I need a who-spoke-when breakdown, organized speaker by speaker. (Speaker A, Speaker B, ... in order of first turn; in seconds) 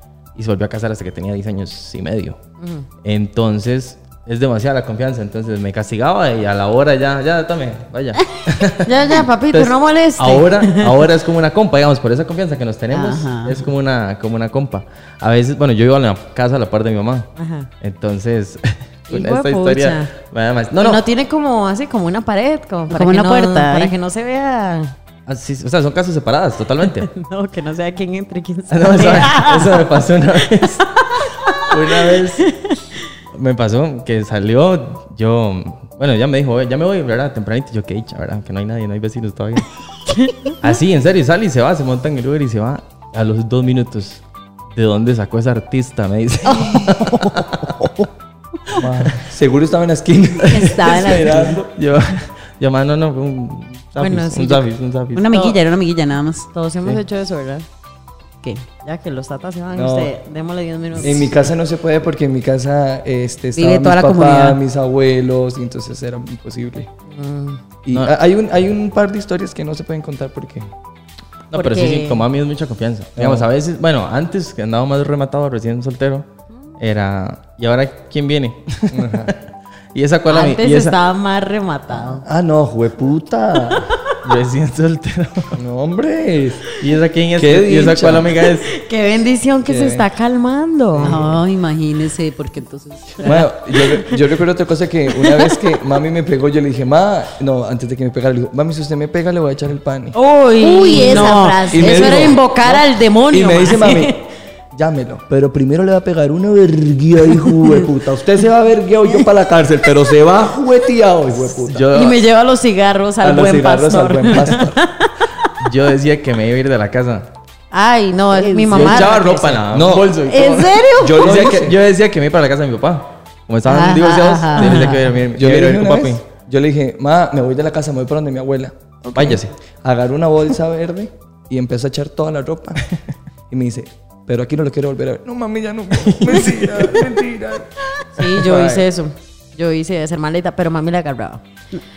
Speaker A: 0.3-2.4, 3.0-17.3, 17.8-21.0, 25.3-27.1, 28.7-32.5, 33.3-39.8, 40.6-47.9, 48.7-49.2, 50.5-55.3, 71.5-76.3, 76.8-79.4, 79.9-81.0, 84.2-85.6, 86.8-88.7, 111.7-112.2, 115.6-117.3, 118.7-126.2, 129.1-129.5, 136.0-137.0
Speaker B: 2.6-2.9, 8.8-11.1, 17.4-17.7, 19.1-20.1, 20.8-24.9, 27.1-29.8, 31.0-33.0, 40.1-40.6, 54.0-54.6, 55.3-55.6, 56.5-57.6, 58.8-61.3, 67.1-67.6, 71.5-72.2, 80.3-82.3, 83.7-84.2, 88.7-91.2, 100.1-104.2, 111.9-115.5, 117.7-119.6, 138.1-141.4
Speaker C: 12.9-13.7, 22.9-23.9, 46.5-47.4, 50.5-51.6, 55.1-56.5, 63.5-64.6, 91.0-93.5, 100.6-102.4, 118.3-119.1, 120.3-121.3, 123.7-125.1
Speaker D: 48.8-51.7, 59.7-60.1, 61.0-66.9, 67.8-70.7, 73.2-73.5, 78.9-79.3, 82.2-84.0, 85.5-86.7, 87.4-88.3, 89.7-90.1, 91.0-91.3, 93.2-100.2, 100.9-104.2, 104.7-111.9, 113.2-114.8, 119.7-120.2, 121.0-121.8, 125.3-132.9, 133.5-138.9